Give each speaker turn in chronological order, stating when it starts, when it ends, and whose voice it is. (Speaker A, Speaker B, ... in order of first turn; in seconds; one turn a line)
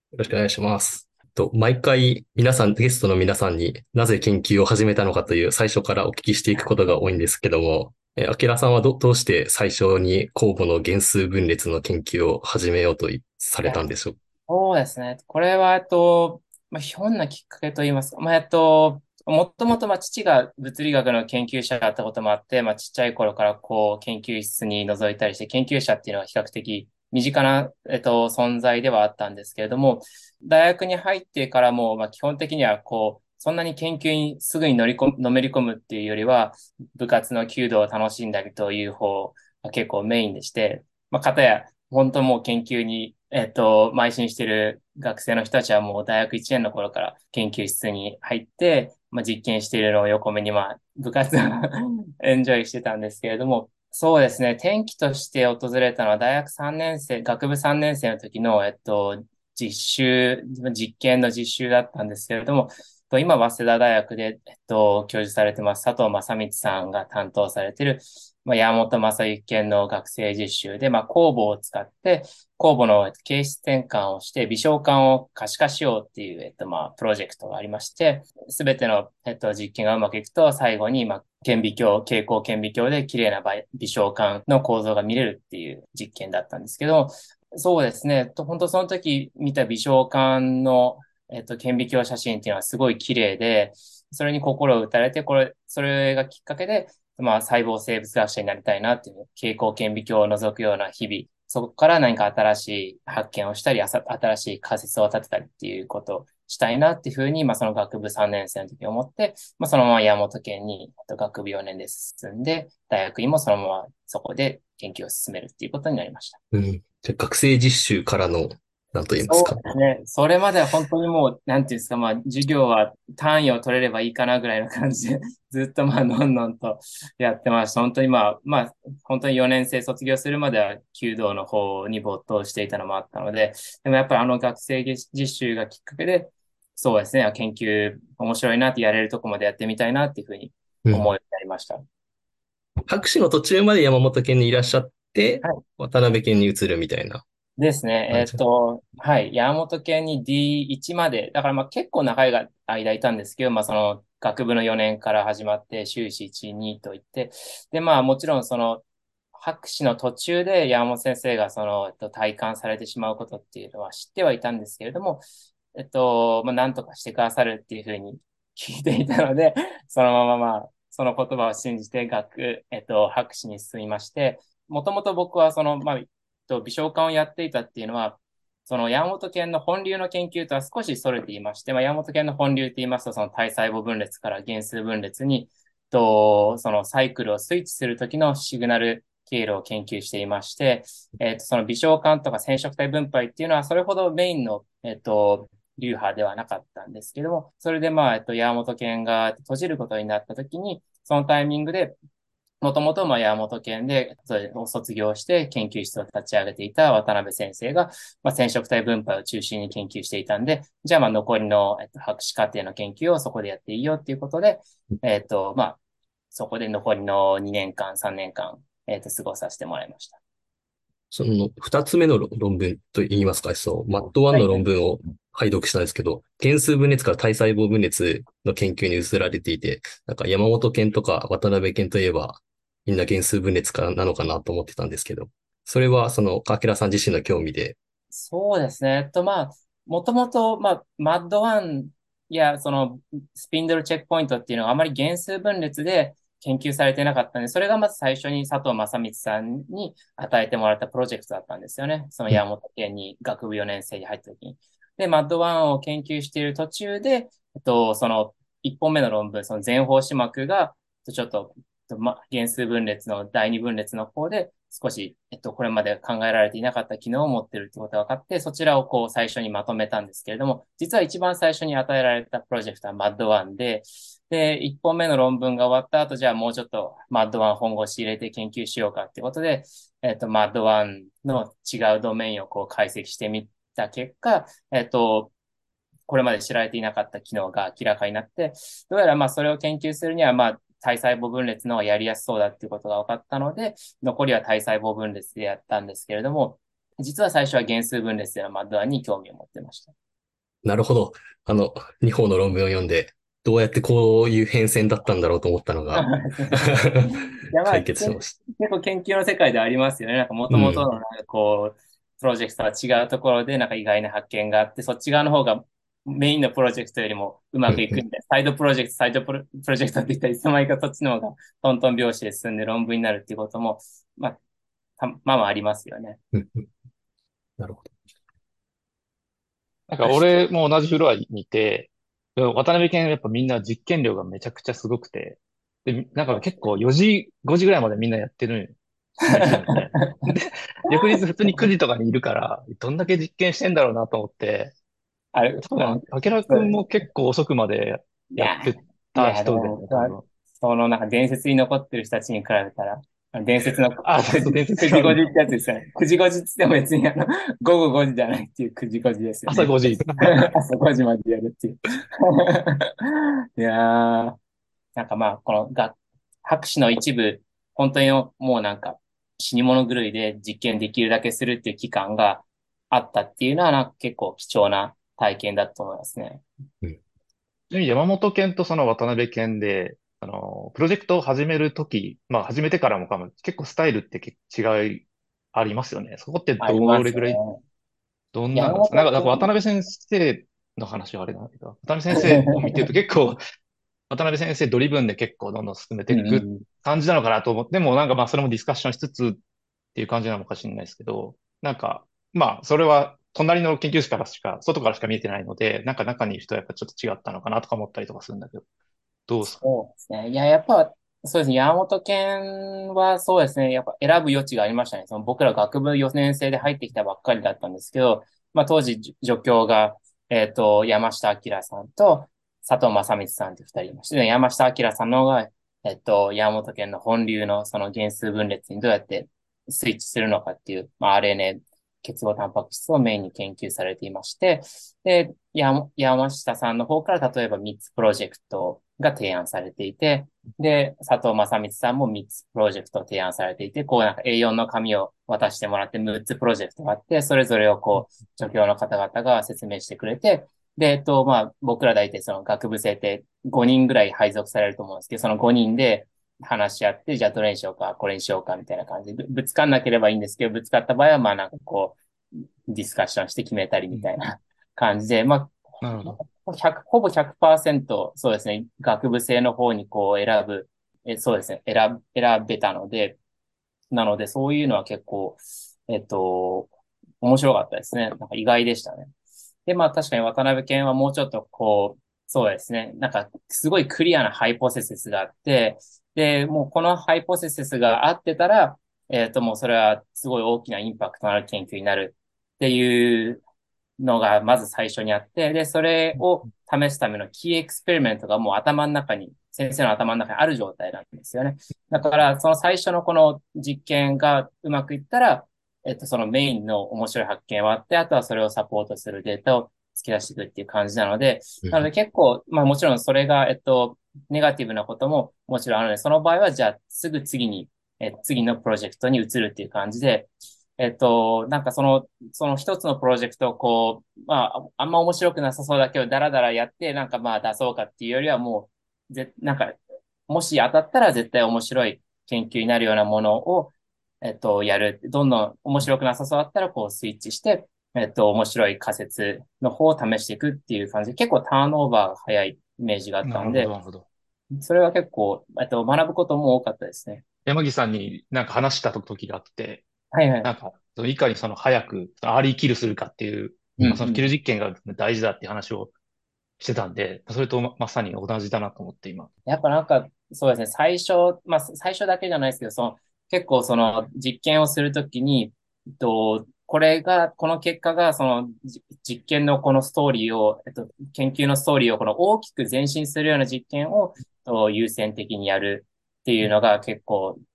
Speaker A: 0.1-14.2
Speaker B: 14.5-116.4
Speaker A: 116.5-119.7
Speaker B: 119.2-141.8
Speaker A: 140.8-141.1
Speaker A: 142.9-147.2
Speaker B: 147.6-158.8
Speaker A: 148.1-148.4
Speaker B: 159.3-201.9
Speaker B: 202.6-215.8
Speaker B: 216.3-220.2
Speaker A: 221.1-237.8
Speaker B: 224.3-224.6
Speaker B: 238.1-285.3
Speaker B: 286.1-299.9
Speaker A: 300.6-307.1
Speaker B: 305.9-324.4
Speaker A: 307.6-308.3
Speaker A: 310.5-310.9
Speaker A: 317.7-318.0
Speaker B: 325.0-326.2
Speaker A: 326.3-326.7
Speaker A: 327.6-327.9
Speaker C: 329.9-338.8
Speaker B: 339.2-340.2
Speaker C: 339.3-344.7
Speaker B: 345.3-346.7
Speaker C: 345.6-350.2
Speaker B: 348.3-364.4
Speaker C: 354.0-355.2
Speaker C: 359.5-360.5
Speaker B: 364.9-376.4
Speaker C: 377.7-387.4
Speaker B: 386.6-387.6
Speaker C: 388.3-393.4
Speaker B: 388.5-389.5
Speaker B: 392.1-392.8
Speaker C: 394.1-399.4
Speaker B: 396.1-396.6
Speaker C: 399.9-408.6
Speaker C: 409.3-409.6
Speaker B: 409.6-462.0
Speaker B: 462.7-473.2
Speaker C: 465.8-466.2
Speaker B: 473.9-476.7
Speaker B: 477.2-479.1
Speaker B: 479.6-493.4
Speaker B: 494.0-543.7
Speaker C: 543.2-544.0
Speaker B: 544.5-547.2
Speaker C: 547.5-549.8
Speaker B: 550.1-550.5
Speaker C: 550.4-555.9
Speaker B: 553.8-554.3
Speaker C: 556.6-559.3
Speaker B: 559.5-577.4